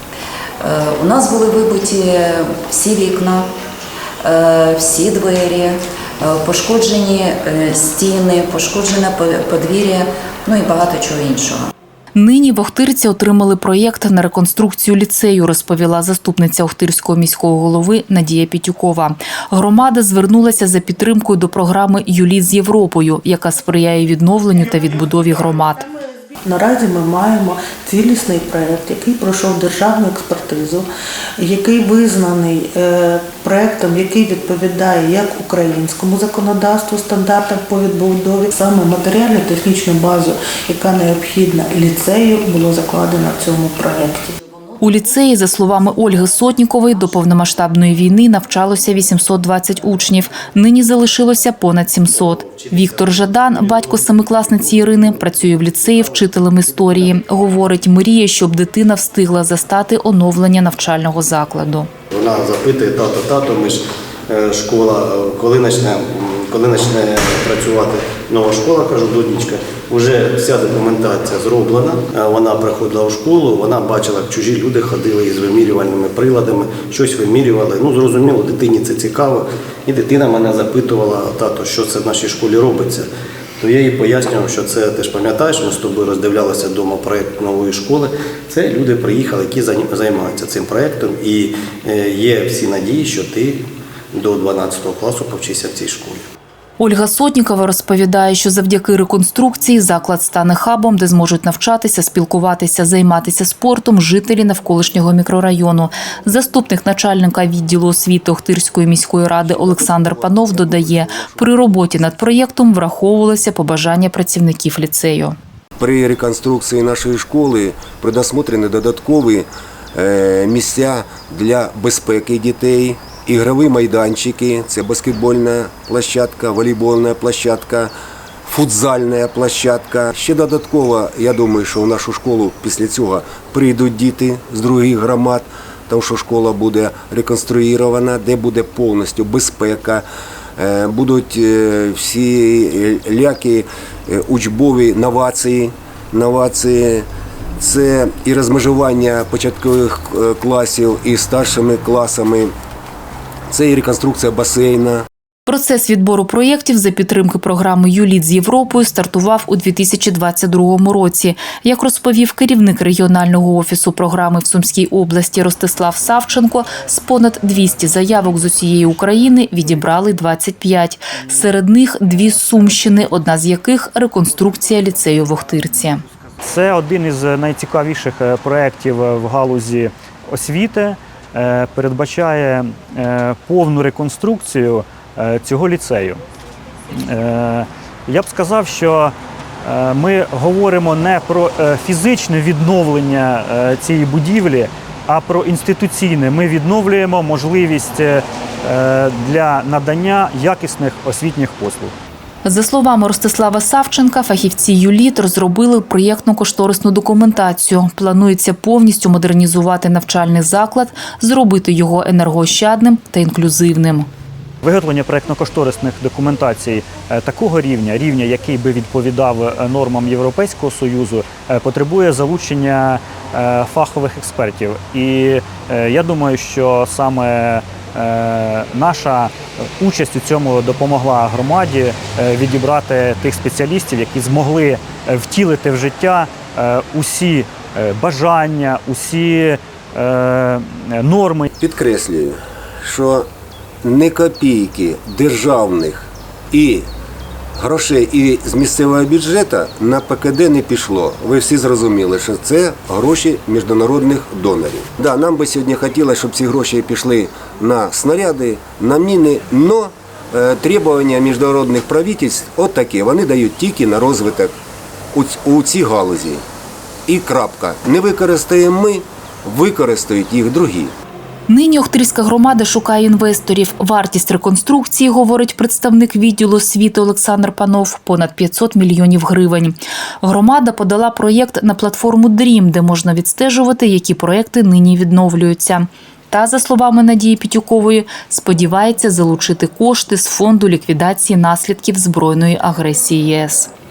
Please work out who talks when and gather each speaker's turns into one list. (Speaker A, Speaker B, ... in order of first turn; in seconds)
Speaker A: 0.6-3.5, 4.2-11.7
Speaker B: 12.2-25.8, 44.8-61.9, 96.8-115.4, 155.5-176.0, 202.4-214.1, 271.5-293.7
Speaker C: 26.4-30.9, 31.4-44.4
Speaker D: 52.2-55.0, 62.1-83.1, 83.6-96.2
Speaker E: 109.4-112.0, 115.8-127.9, 128.4-140.1, 140.6-147.1, 147.6-152.5, 153.5-155.0, 241.6-243.3, 243.8-246.9, 247.6-264.6, 265.1-266.4, 267.1-270.9
Speaker F: 176.4-186.2, 186.9-201.9, 214.6-241.5